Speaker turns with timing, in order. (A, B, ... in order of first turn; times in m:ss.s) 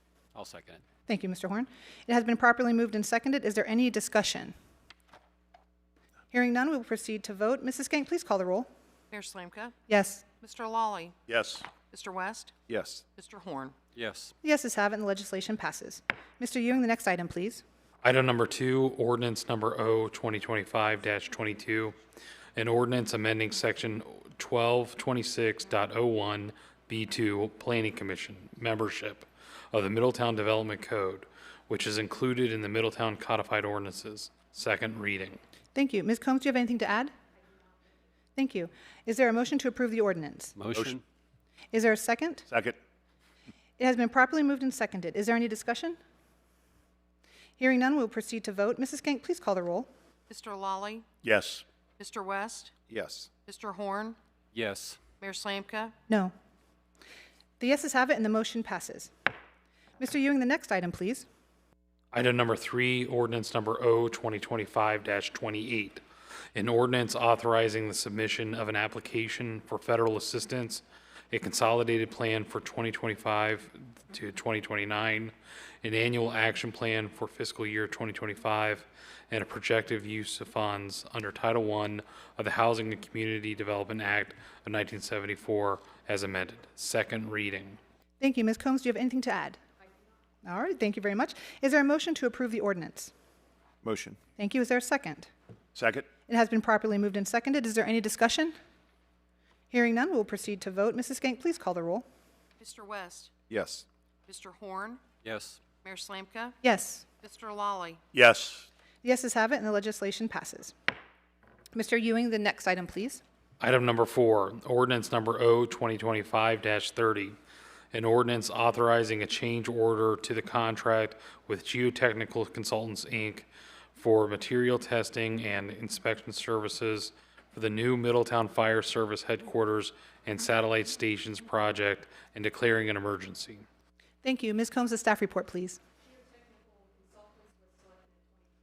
0:00.3-0:00.8 A
0:01.1-0:04.5 B
0:06.3-0:08.7 B
0:09.1-0:09.7 C
0:09.9-0:10.2 B
0:10.4-0:11.2 C
0:11.3-0:11.6 D
0:11.9-0:12.5 C
0:12.7-0:13.0 D
0:13.2-0:13.7 C
0:14.0-0:14.3 A
0:14.4-0:17.6 B
0:18.0-0:22.0 E
0:22.6-0:35.4 E
0:35.7-0:37.1 B
0:38.4-0:40.6 B
0:40.6-0:41.0 A
0:40.7-0:41.0 D
0:41.7-0:42.4 B
0:42.5-0:42.8 D
0:43.8-0:46.0 B
0:47.6-0:49.9 B
0:50.3-0:51.1 C
0:51.2-0:51.6 D
0:52.0-0:52.7 C
0:52.9-0:53.3 D
0:53.4-0:54.2 C
0:54.5-0:55.0 A
0:55.2-0:55.9 C
0:56.1-0:56.3 B
0:57.6-0:59.1 B
1:00.0-1:01.2 B
1:02.1-1:06.0 E
1:06.5-1:27.8 E
1:28.2-1:29.6 B
1:30.4-1:33.1 B
1:33.8-1:34.2 D
1:34.4-1:35.3 B
1:35.7-1:36.1 D
1:36.3-1:38.5 B
1:39.7-1:42.0 B
1:42.6-1:43.3 C
1:43.5-1:43.8 D
1:44.3-1:45.0 C
1:45.2-1:45.6 A
1:45.8-1:46.6 C
1:46.6-1:47.0 B
1:47.2-1:48.0 C
1:48.1-1:48.7 D
1:49.0-1:50.7 B
1:51.7-1:53.2 B
1:53.6-1:57.4 E
1:57.9-2:13.6 E
2:14.2-2:15.8 B